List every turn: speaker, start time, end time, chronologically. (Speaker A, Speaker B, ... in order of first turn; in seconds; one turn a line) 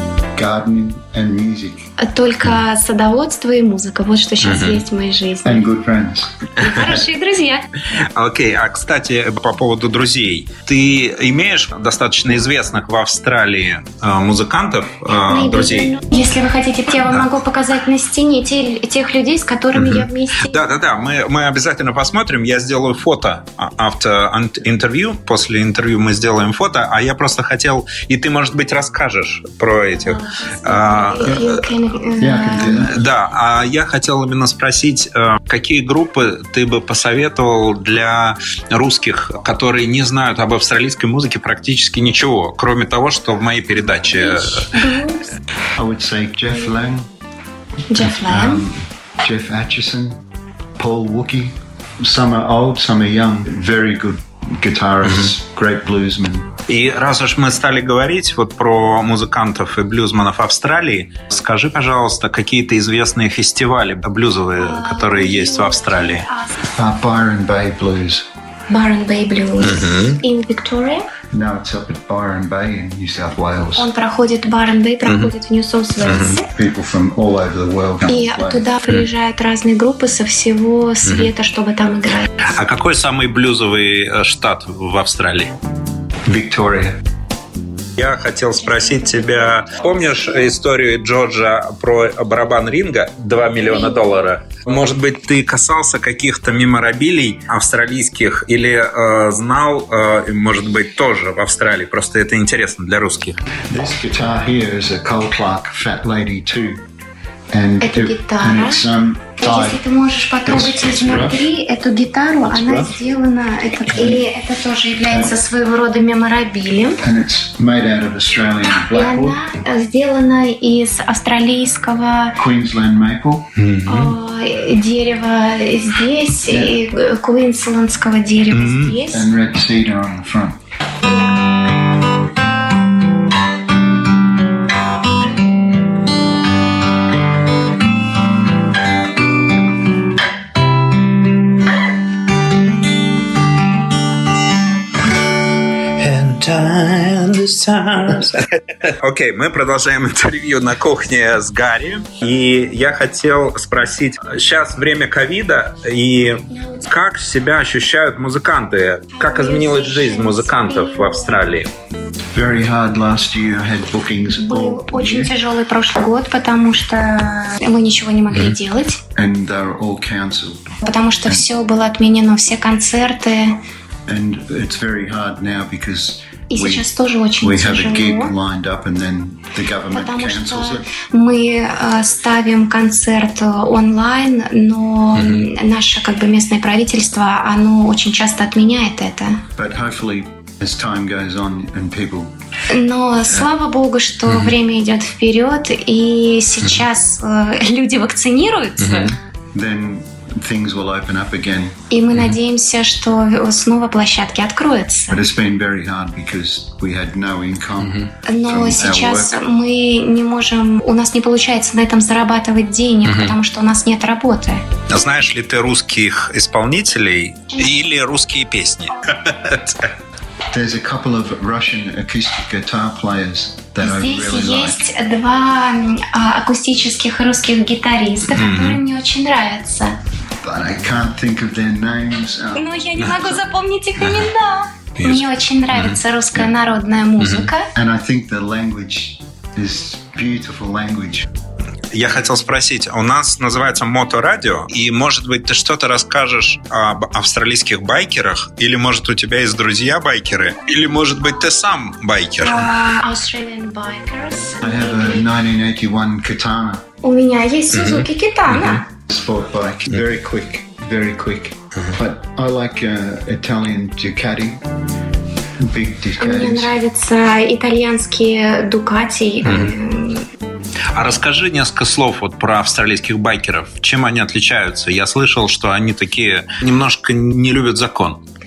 Speaker A: 0.3-1.8
Speaker B: 2.0-5.7
Speaker C: 4.4-4.8
Speaker A: 5.4-6.7
Speaker B: 6.6-7.6
Speaker C: 6.6-7.0
Speaker C: 7.9-15.9
Speaker B: 15.2-20.6
Speaker C: 19.7-31.6
Speaker B: 30.0-32.9
Speaker A: 32.2-32.9
Speaker C: 32.6-44.8
Speaker B: 44.1-45.3
Speaker A: 45.8-47.1
Speaker B: 47.9-48.6
Speaker A: 47.9-50.2
Speaker A: 50.8-56.5
Speaker C: 55.0-55.3
Speaker C: 56.7-66.2
Speaker B: 64.5-66.6
Speaker A: 66.7-68.2
Speaker B: 68.7-71.1
Speaker C: 69.6-70.2
Speaker A: 71.3-73.9
Speaker B: 73.8-76.5
Speaker C: 75.0-75.3
Speaker C: 76.0-76.4
Speaker A: 76.5-78.7
Speaker B: 78.1-82.4
Speaker C: 81.0-81.3
Speaker C: 82.5-85.5
Speaker A: 86.3-87.0
Speaker C: 88.0-103.3
Speaker B: 88.6-90.5
Speaker B: 93.7-94.1
Speaker A: 103.7-106.8
Speaker A: 107.5-109.8
Speaker B: 107.8-108.8
Speaker B: 109.4-117.0
Speaker A: 110.5-111.5
Speaker A: 113.9-114.2
Speaker A: 115.1-115.4
Speaker A: 117.0-119.4
Speaker B: 118.9-122.4
Speaker A: 122.3-123.5
Speaker C: 123.5-124.1
Speaker B: 123.9-129.3
Speaker A: 126.4-126.8
Speaker C: 128.5-129.0
Speaker A: 129.1-130.6
Speaker C: 145.9-148.4
Speaker C: 149.0-161.7
Speaker B: 156.5-156.9
Speaker B: 159.1-161.4
Speaker A: 162.3-165.3
Speaker B: 164.3-169.0
Speaker A: 169.1-170.6
Speaker B: 170.8-173.6
Speaker A: 174.1-176.9
Speaker B: 176.5-178.3
Speaker A: 177.4-180.9
Speaker B: 179.9-189.4
Speaker C: 185.2-185.5
Speaker A: 189.6-192.3
Speaker B: 192.7-199.1
Speaker C: 194.3-194.5
Speaker C: 198.8-199.1
Speaker A: 199.5-201.7
Speaker B: 201.9-205.2
Speaker A: 205.1-209.4
Speaker C: 207.8-208.1
Speaker B: 208.2-214.6
Speaker C: 213.0-213.3
Speaker C: 214.9-219.9
Speaker B: 217.5-217.8
Speaker A: 220.5-224.8
Speaker B: 223.8-229.9
Speaker C: 228.3-228.8
Speaker A: 230.4-232.8
Speaker B: 232.5-237.7
Speaker C: 235.0-236.0
Speaker C: 237.2-237.5
Speaker A: 237.7-241.3
Speaker C: 241.9-252.9
Speaker B: 252.4-255.3
Speaker A: 254.6-256.8
Speaker B: 257.0-258.8
Speaker C: 257.7-258.8
Speaker A: 258.9-264.6
Speaker A: 265.6-266.7
Speaker B: 266.2-270.3
Speaker C: 269.4-269.7
Speaker C: 270.9-278.2